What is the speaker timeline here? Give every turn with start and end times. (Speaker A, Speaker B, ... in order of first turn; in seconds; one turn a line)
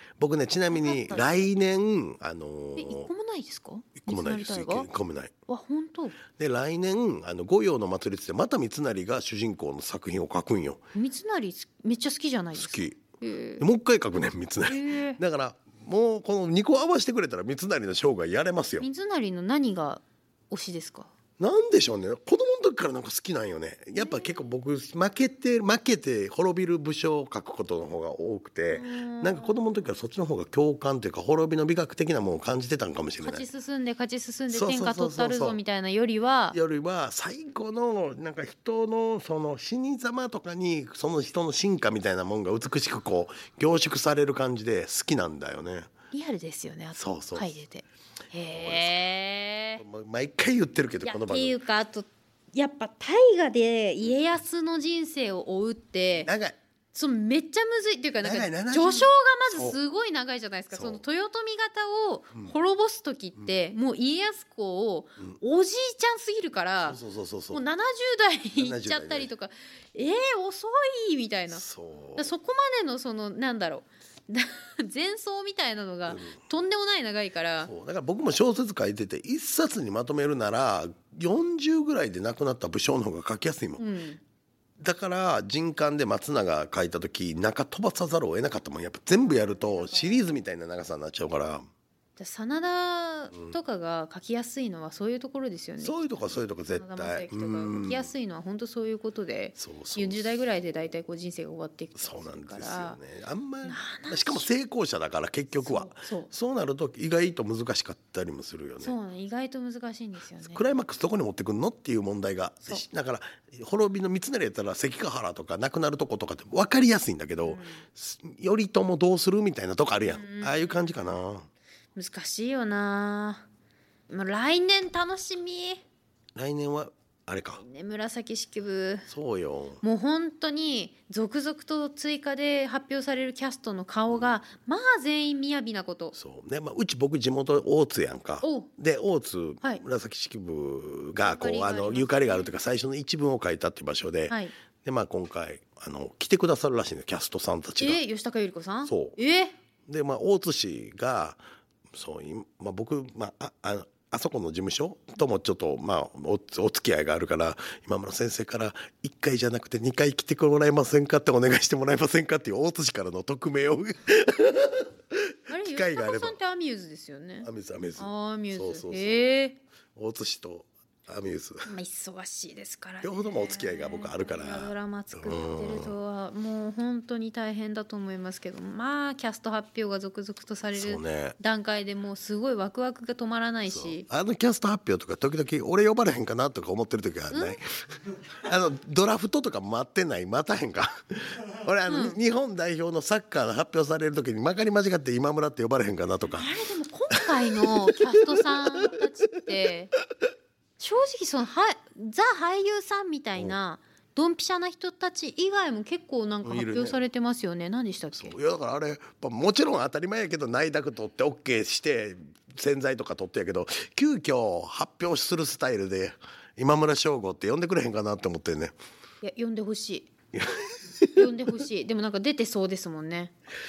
Speaker A: 0.2-3.1
Speaker B: 0.7-1.4
Speaker B: 2.8-4.9
Speaker A: 4.0-5.3
Speaker B: 5.5-6.2
Speaker A: 6.4-10.8
Speaker B: 10.9-13.6
Speaker A: 12.6-13.0
Speaker A: 13.6-18.9
Speaker B: 14.7-15.2
Speaker B: 18.8-21.1
Speaker A: 21.4-33.5
Speaker B: 24.0-24.3
Speaker B: 28.7-29.6
Speaker B: 33.2-36.6
Speaker A: 34.5-35.6
Speaker A: 36.5-45.9
Speaker B: 46.1-49.8
Speaker A: 46.9-47.5
Speaker A: 48.5-49.1
Speaker A: 49.8-51.6
Speaker B: 51.0-56.3
Speaker A: 56.2-56.6
Speaker B: 56.9-67.0
Speaker A: 58.2-59.8
Speaker A: 60.7-61.0
Speaker A: 66.8-67.6
Speaker B: 67.5-71.6
Speaker A: 68.6-69.3
Speaker A: 71.5-72.3
Speaker B: 72.2-77.7
Speaker A: 76.1-76.3
Speaker A: 77.6-83.8
Speaker B: 83.8-84.2
Speaker A: 84.8-91.7
Speaker B: 89.5-90.2
Speaker B: 92.2-96.0
Speaker A: 93.3-93.6
Speaker A: 95.8-98.1
Speaker B: 96.8-103.0
Speaker A: 99.6-100.2
Speaker A: 102.0-108.9
Speaker B: 103.7-104.5
Speaker B: 105.6-106.3
Speaker B: 108.8-110.7
Speaker A: 110.5-121.5
Speaker B: 117.4-117.8
Speaker B: 120.0-120.8
Speaker B: 122.0-123.5
Speaker B: 124.1-125.8
Speaker A: 126.3-127.6
Speaker B: 127.6-129.1
Speaker A: 129.1-129.8
Speaker B: 129.8-136.2
Speaker A: 136.2-148.0
Speaker B: 138.4-138.7
Speaker B: 141.2-142.5
Speaker B: 147.8-149.5
Speaker A: 148.8-149.2
Speaker A: 149.8-166.4
Speaker B: 165.5-169.6
Speaker A: 167.4-169.2
Speaker A: 169.9-171.7
Speaker B: 171.7-184.1
Speaker A: 173.0-175.9
Speaker A: 180.7-181.4
Speaker A: 183.7-187.7
Speaker B: 187.3-187.6
Speaker A: 188.4-196.5
Speaker B: 191.9-192.2
Speaker B: 196.3-199.9
Speaker A: 197.1-199.1
Speaker B: 200.8-208.3
Speaker A: 206.4-207.0
Speaker A: 208.1-218.7
Speaker B: 219.2-220.1
Speaker A: 220.3-221.4
Speaker B: 221.1-223.3